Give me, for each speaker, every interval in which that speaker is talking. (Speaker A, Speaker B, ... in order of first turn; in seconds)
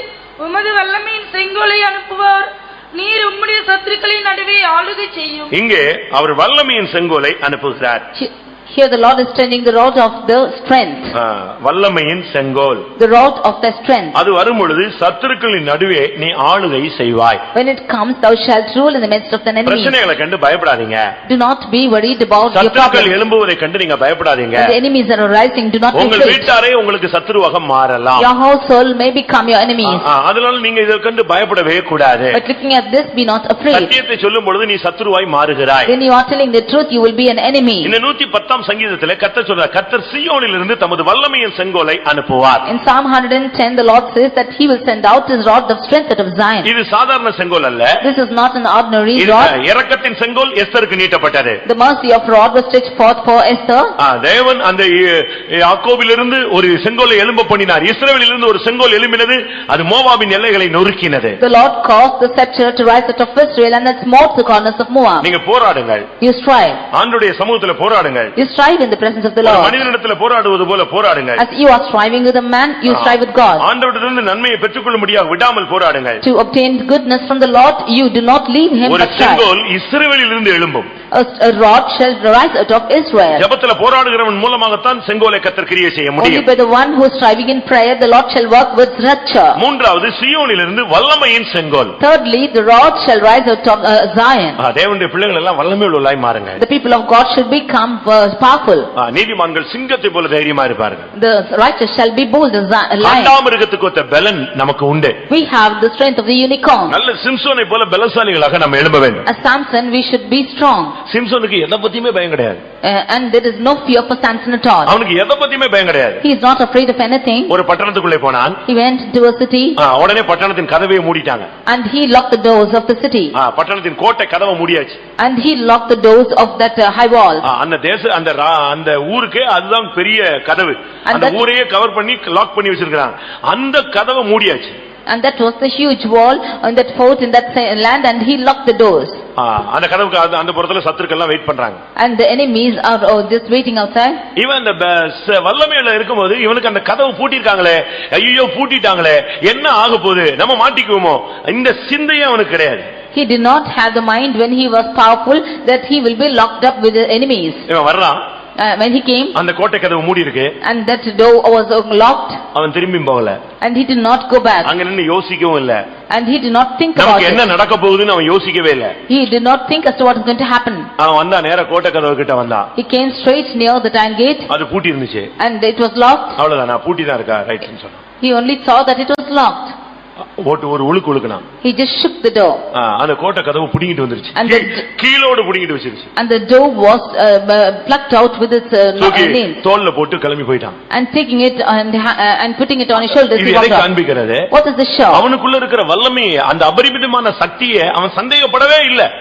Speaker A: 0.4-2.4, 2.9-5.5
Speaker B: 0.5-2.2, 8.2-11.1, 13.0-14.2, 17.5-19.9, 21.2-23.1, 24.6-26.5, 28.2-30.1, 32.3-33.9, 35.9-37.9, 42.6-46.7, 48.0-49.5, 51.6-53.9, 61.4-65.3, 66.2-66.8, 68.3-69.8, 71.3-73.7, 76.2-79.5, 81.1-83.5, 86.2-89.6, 92.0-94.6, 96.6-98.9, 101.1-103.3, 105.3-107.0, 109.2-111.0, 112.8-114.9, 116.2-117.5, 118.7-119.8, 121.7-123.3, 125.2-127.4, 131.1-131.4, 135.1-139.2, 142.0-144.2, 153.1-157.7, 158.6-159.3, 160.6-162.4, 163.6-164.7, 166.1-167.4, 169.1-170.9, 172.8-174.5, 175.4-176.4, 178.2-179.7, 181.6-182.6, 184.3-184.8, 186.2-189.6, 190.9-193.9, 194.5-195.2
Speaker C: 5.5-8.0, 11.1-12.9, 14.1-17.4, 19.6-21.1, 22.5-24.7, 25.9-28.3, 29.8-32.4, 33.7-35.9, 37.8-42.6, 46.6-48.0, 49.1-51.6, 54.0-61.4, 65.2-66.1, 66.9-68.3, 69.4-71.4, 72.8-76.2, 78.8-80.9, 83.3-86.4, 89.5-92.0, 94.6-96.6, 99.0-101.1, 103.0-105.2, 106.9-109.2, 111.1-112.6, 114.8-116.2, 117.5-118.6, 119.8-121.5, 123.3-125.0, 127.4-134.8, 139.4-141.8, 144.3-152.9, 157.7-158.2, 159.3-160.5, 162.5-163.4, 164.6-165.8, 166.9-168.9, 171.0-172.7, 174.5-175.3, 176.3-178.0, 180.4-181.4, 182.7-186.1, 189.0-190.8, 193.3-194.5, 195.1-199.1